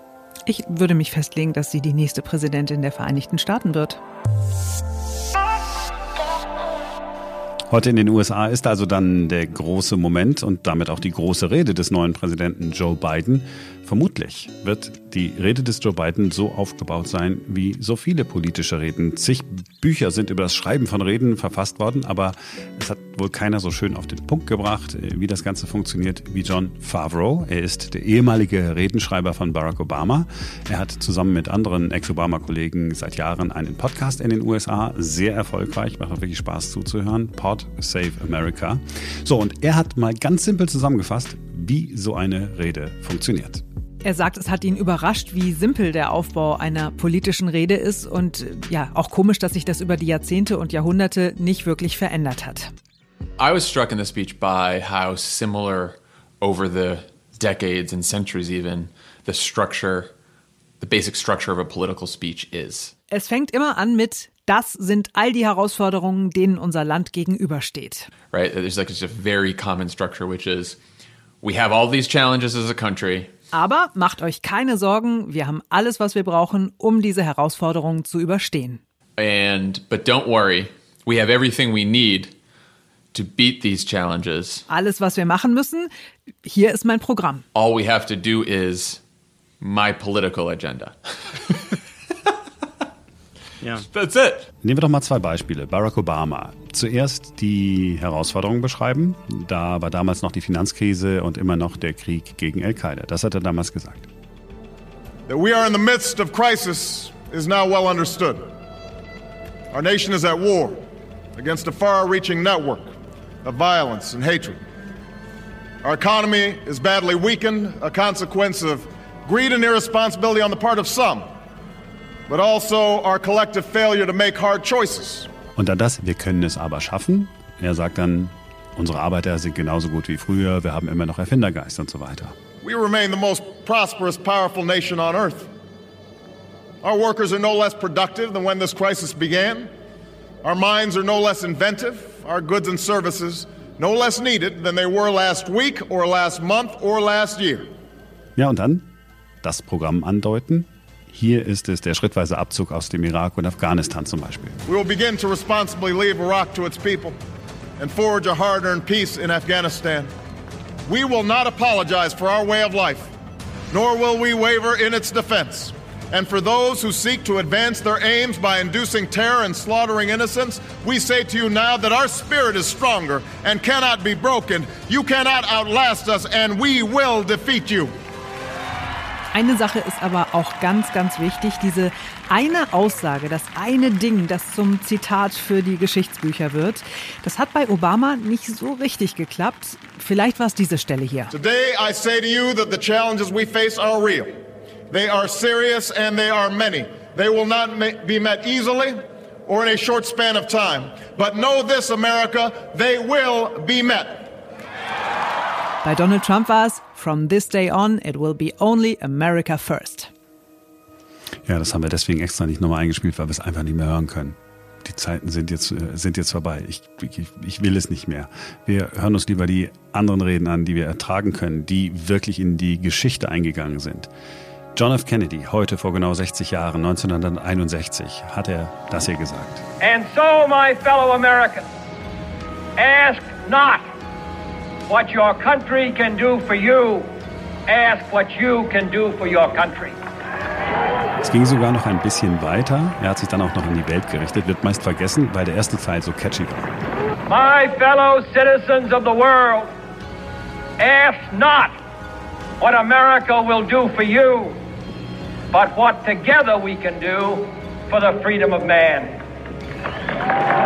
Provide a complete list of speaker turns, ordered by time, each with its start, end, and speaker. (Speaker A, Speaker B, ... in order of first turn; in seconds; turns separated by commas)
Speaker A: 0.5-4.0, Speaker B: 7.7-43.6, Speaker A: 44.0-52.7, Speaker C: 53.4-60.1, Speaker C: 60.8-62.9, Speaker A: 63.1-68.1, Speaker C: 68.3-70.8, Speaker C: 71.4-73.3, Speaker A: 73.5-78.8, Speaker C: 79.2-82.3, Speaker C: 83.1-84.6, Speaker A: 84.7-85.9, Speaker A: 86.4-87.4, Speaker C: 87.5-89.0, Speaker C: 89.6-91.6, Speaker C: 93.6-94.5, Speaker B: 94.6-104.1, Speaker D: 105.3-108.4, Speaker D: 109.7-110.8, Speaker D: 111.3-112.9, Speaker D: 113.4-114.6, Speaker D: 115.8-121.3, Speaker D: 122.3-125.3, Speaker B: 125.5-132.3, Speaker D: 132.6-135.5, Speaker D: 136.8-139.7, Speaker D: 140.4-147.7, Speaker B: 148.3-148.9, Speaker B: 149.4-154.6, Speaker D: 154.7-157.2, Speaker D: 157.8-160.1, Speaker D: 160.9-163.1, Speaker D: 163.7-177.9, Speaker A: 179.3-191.3, Speaker D: 191.3-194.3, Speaker D: 194.9-204.3, Speaker A: 205.8-210.1, Speaker B: 211.4-224.1, Speaker B: 224.7-229.6, Speaker E: 229.8-231.7, Speaker E: 232.8-233.8, Speaker E: 234.9-237.1, Speaker E: 237.7-240.0, Speaker B: 241.2-246.7, Speaker E: 247.3-249.7, Speaker E: 250.8-251.8, Speaker E: 252.6-254.6, Speaker E: 255.5-259.2